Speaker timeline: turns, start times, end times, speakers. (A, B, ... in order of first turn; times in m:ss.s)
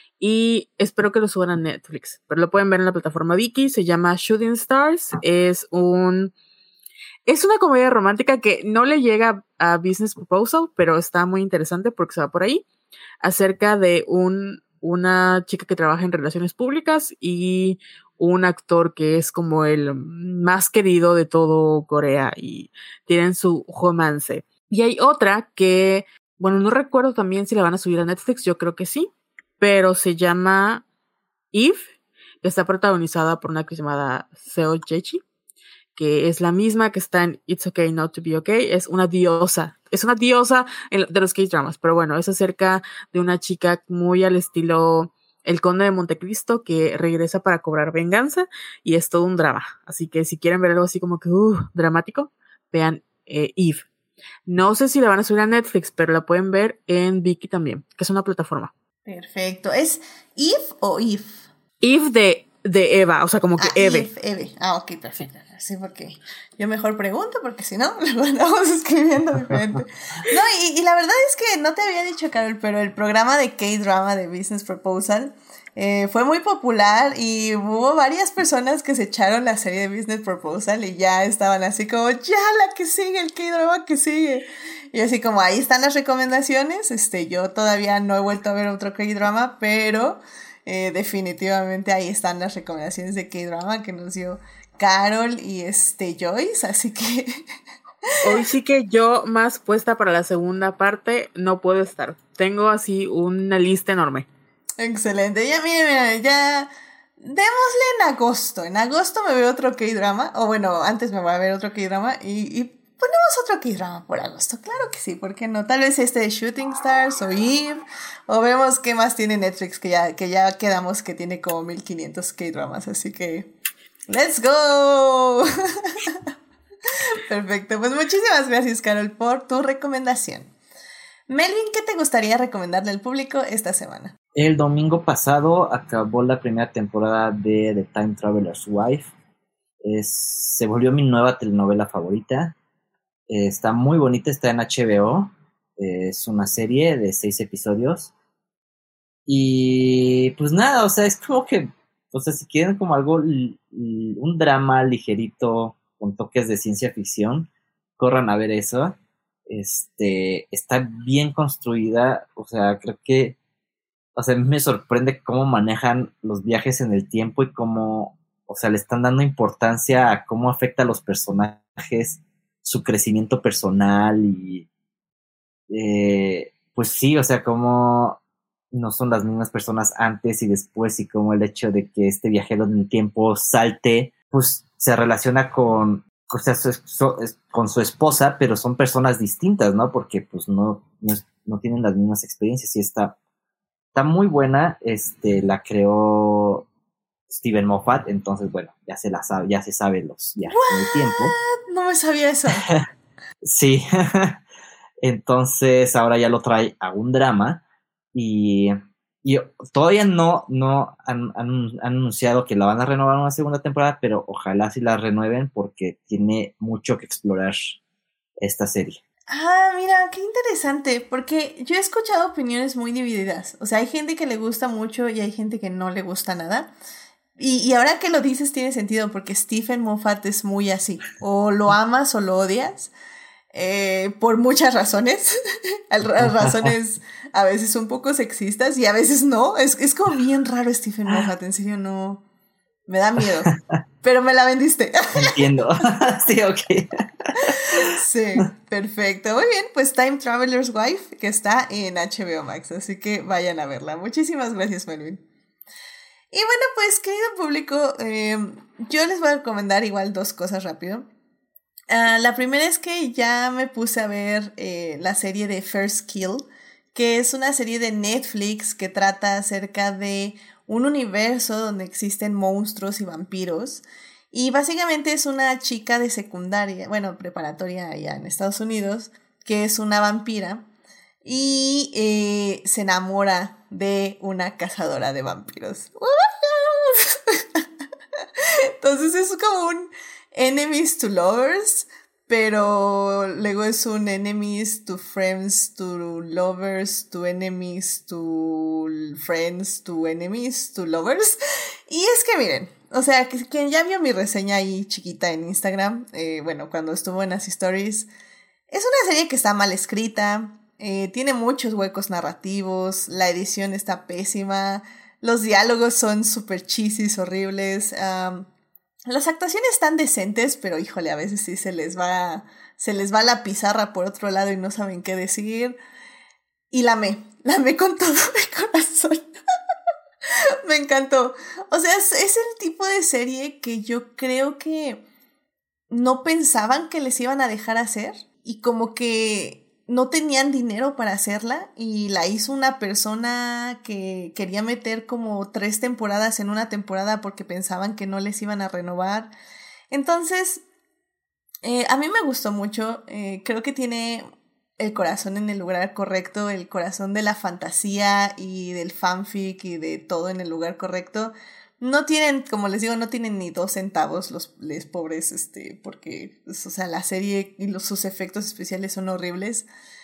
0:00.2-0:06.3 A
0:07.3-0:12.6 A
0:13.2-0:29.1 A
0:29.6-0:30.8 A
0:31.5-0:31.9 A
0:32.4-0:35.2 A
0:36.0-0:53.8 A
0:54.5-0:58.7 A
0:59.0-1:01.4 B
1:01.8-1:04.1 A
1:03.6-1:37.4 B
1:38.2-1:44.3 A
1:44.8-1:46.7 B
1:47.2-2:03.5 B
2:04.1-2:06.2 B
2:07.3-2:10.5 B
2:11.3-2:14.1 B
2:14.4-2:19.1 C
2:19.8-2:22.6 C
2:23.3-2:28.1 C
2:29.3-2:39.0 C
2:39.5-2:43.4 C
2:44.2-2:54.7 C
2:55.7-2:58.2 C
2:58.7-3:13.2 C
3:13.9-3:16.7 C
3:17.3-3:21.3 C
3:20.5-3:22.7 B
3:23.4-3:24.4 C
3:25.0-3:27.6 C
3:28.1-3:37.8 C
3:38.4-3:39.0 C
3:39.3-3:46.7 B
3:47.4-3:52.9 B
3:53.5-3:55.3 B
3:55.9-4:02.2 B
3:56.2-3:56.7 C
4:02.9-4:05.4 B
4:05.2-4:07.9 C
4:07.6-4:15.2 B
4:16.3-4:21.1 B
4:21.9-4:40.6 B
4:41.2-4:47.6 B
4:48.4-5:08.1 B
5:08.7-5:18.5 B
5:19.1-5:25.8 B
5:26.7-5:29.3 B
5:30.3-5:35.0 B
5:35.9-5:49.3 B
5:49.9-5:50.6 B
5:51.6-5:54.3 B
5:54.8-6:09.6 B